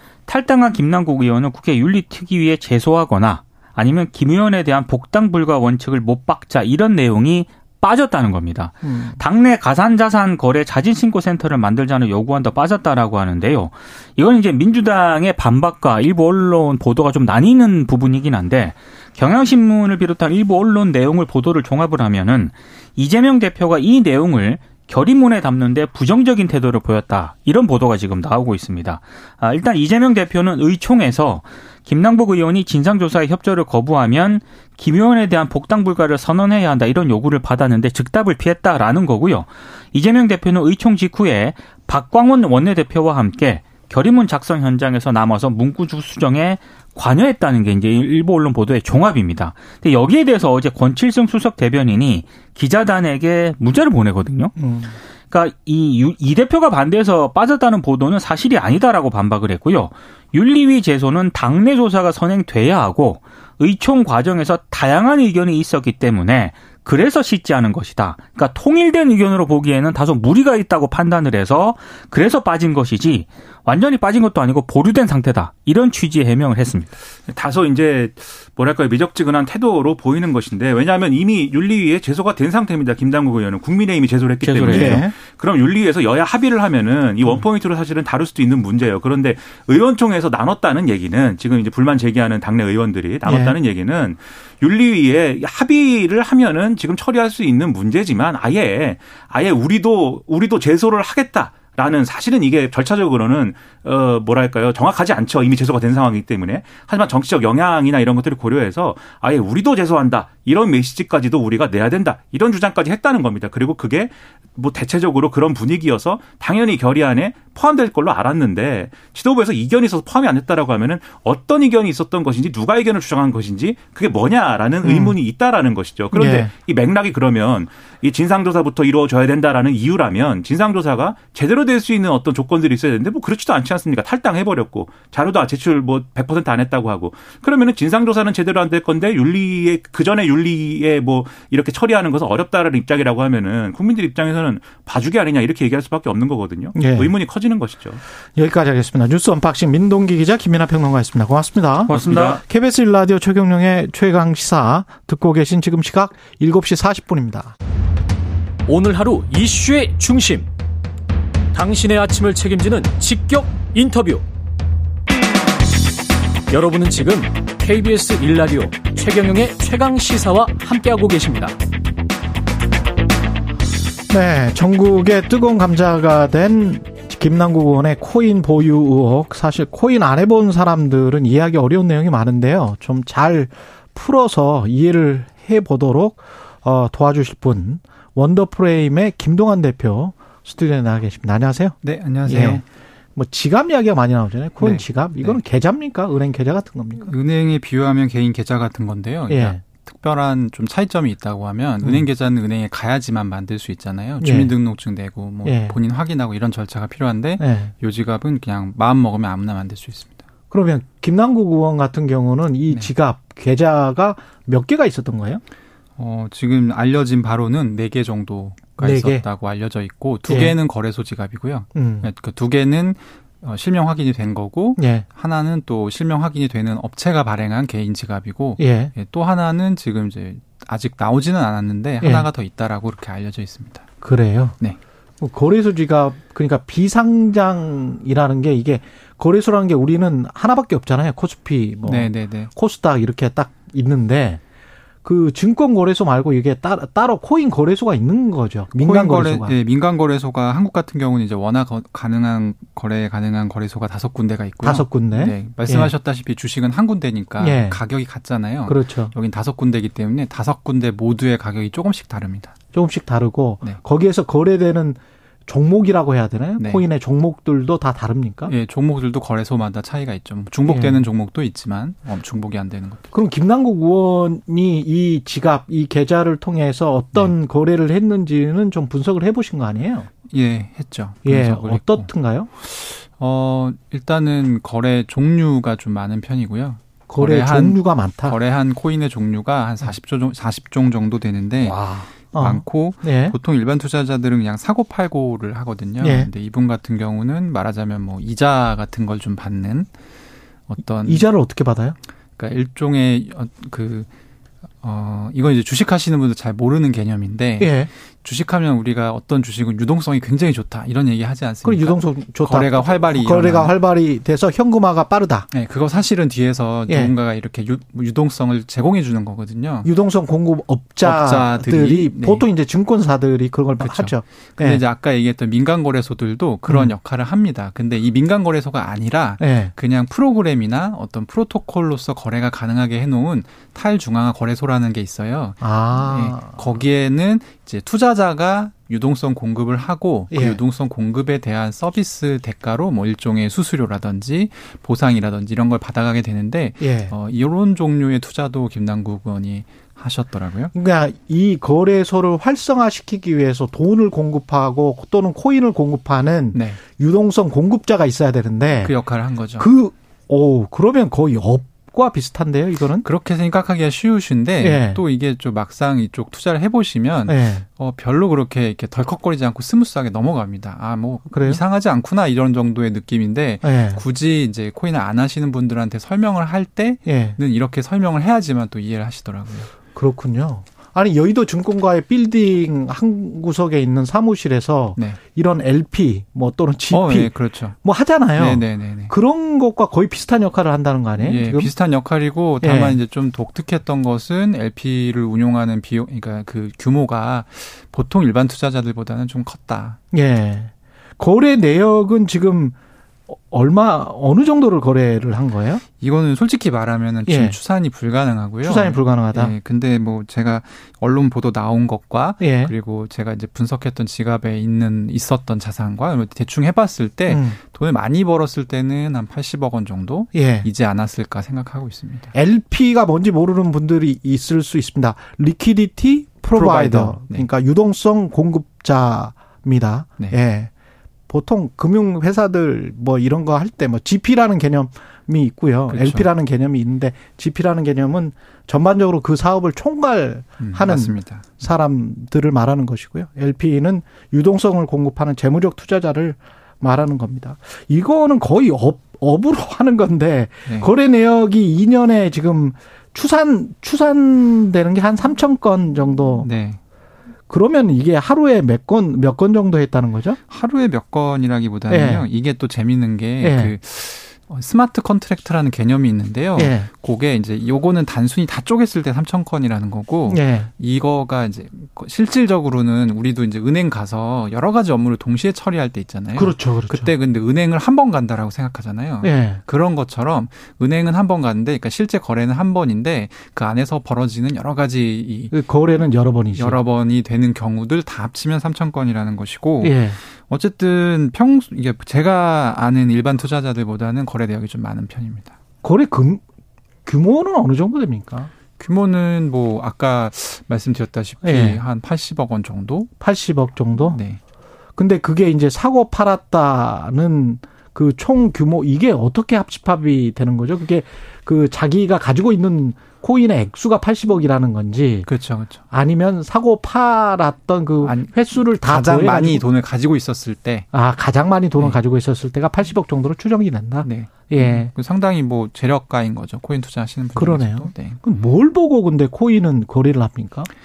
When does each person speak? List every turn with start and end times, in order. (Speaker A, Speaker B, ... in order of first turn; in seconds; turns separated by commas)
Speaker A: 0.3-54.6, Speaker B: 8.8-9.2, Speaker B: 54.6-55.0, Speaker A: 55.3-76.9, Speaker C: 77.3-148.0, Speaker A: 84.4-85.0, Speaker B: 84.7-85.1, Speaker B: 93.2-93.6, Speaker B: 124.8-125.2, Speaker B: 126.1-126.5, Speaker B: 146.8-147.1, Speaker B: 148.3-157.6, Speaker A: 151.9-152.4, Speaker C: 151.9-152.4, Speaker D: 158.7-160.5, Speaker D: 161.5-164.2, Speaker D: 166.5-171.5, Speaker B: 174.1-192.6, Speaker E: 191.8-192.6, Speaker B: 193.2-197.1, Speaker E: 194.6-195.4, Speaker E: 197.0-210.2, Speaker B: 199.3-199.6, Speaker B: 201.8-202.1, Speaker B: 204.2-204.5, Speaker B: 205.4-205.8, Speaker B: 207.4-207.7, Speaker B: 210.5-215.4, Speaker E: 216.0-233.9, Speaker B: 218.8-219.2, Speaker B: 220.2-220.6, Speaker B: 221.7-222.1, Speaker B: 224.8-225.1, Speaker B: 228.6-228.9, Speaker B: 232.0-232.3, Speaker B: 234.0-234.6, Speaker B: 235.2-244.4, Speaker E: 241.9-242.5, Speaker B: 245.0-249.6, Speaker E: 248.8-262.6, Speaker B: 254.6-255.9, Speaker B: 257.4-257.8, Speaker B: 258.6-259.1, Speaker B: 262.7-268.5, Speaker E: 266.6-266.8, Speaker E: 268.5-273.1, Speaker B: 270.7-271.0, Speaker B: 273.1-280.1, Speaker E: 280.3-282.1, Speaker B: 281.2-282.5, Speaker E: 282.6-291.8, Speaker B: 287.1-288.4, Speaker B: 291.6-293.4, Speaker E: 292.3-299.9, Speaker B: 296.0-296.3, Speaker E: 300.7-301.3, Speaker B: 301.0-302.0, Speaker E: 302.4-304.1, Speaker E: 304.8-313.7, Speaker B: 307.6-307.9, Speaker B: 311.6-315.5, Speaker E: 315.5-319.9, Speaker B: 316.9-317.1, Speaker B: 319.8-324.8, Speaker E: 321.0-322.4, Speaker E: 323.8-350.7, Speaker B: 326.7-326.9, Speaker B: 329.4-329.7, Speaker B: 335.6-336.8, Speaker B: 340.3-340.6, Speaker B: 346.8-347.1, Speaker B: 350.7-358.9, Speaker E: 356.5-356.8, Speaker E: 358.8-359.7, Speaker B: 359.6-363.1, Speaker E: 363.0-379.7, Speaker B: 364.6-365.0, Speaker B: 367.3-367.7, Speaker B: 371.3-371.6, Speaker B: 373.6-374.0, Speaker B: 377.1-377.4, Speaker B: 379.9-391.7, Speaker E: 386.9-387.8, Speaker E: 388.4-389.1, Speaker E: 391.2-400.0, Speaker B: 392.6-393.0, Speaker B: 400.1-402.8, Speaker B: 403.3-405.8, Speaker E: 406.0-422.3, Speaker B: 407.3-407.6, Speaker B: 408.6-409.5, Speaker B: 412.4-412.7, Speaker B: 417.3-417.6, Speaker B: 420.3-420.7, Speaker B: 422.3-430.7, Speaker E: 426.6-427.5, Speaker B: 431.3-456.5, Speaker E: 435.9-436.3, Speaker E: 440.6-441.6, Speaker E: 456.4-456.8, Speaker B: 457.5-460.4, Speaker E: 460.5-485.5, Speaker B: 461.9-462.3, Speaker B: 463.4-463.7, Speaker B: 466.6-466.9, Speaker B: 470.3-470.7, Speaker B: 476.3-477.1, Speaker B: 479.2-479.6, Speaker B: 485.5-486.8, Speaker E: 486.6-495.5, Speaker B: 489.8-490.2, Speaker B: 495.8-496.4, Speaker B: 497.1-498.5, Speaker E: 498.8-503.1, Speaker B: 501.4-501.8, Speaker B: 503.2-504.2, Speaker E: 504.0-504.4, Speaker B: 505.0-515.3, Speaker E: 515.3-515.8, Speaker B: 515.9-519.7, Speaker E: 518.0-520.9, Speaker B: 520.9-524.9, Speaker E: 524.0-528.2, Speaker B: 527.4-530.7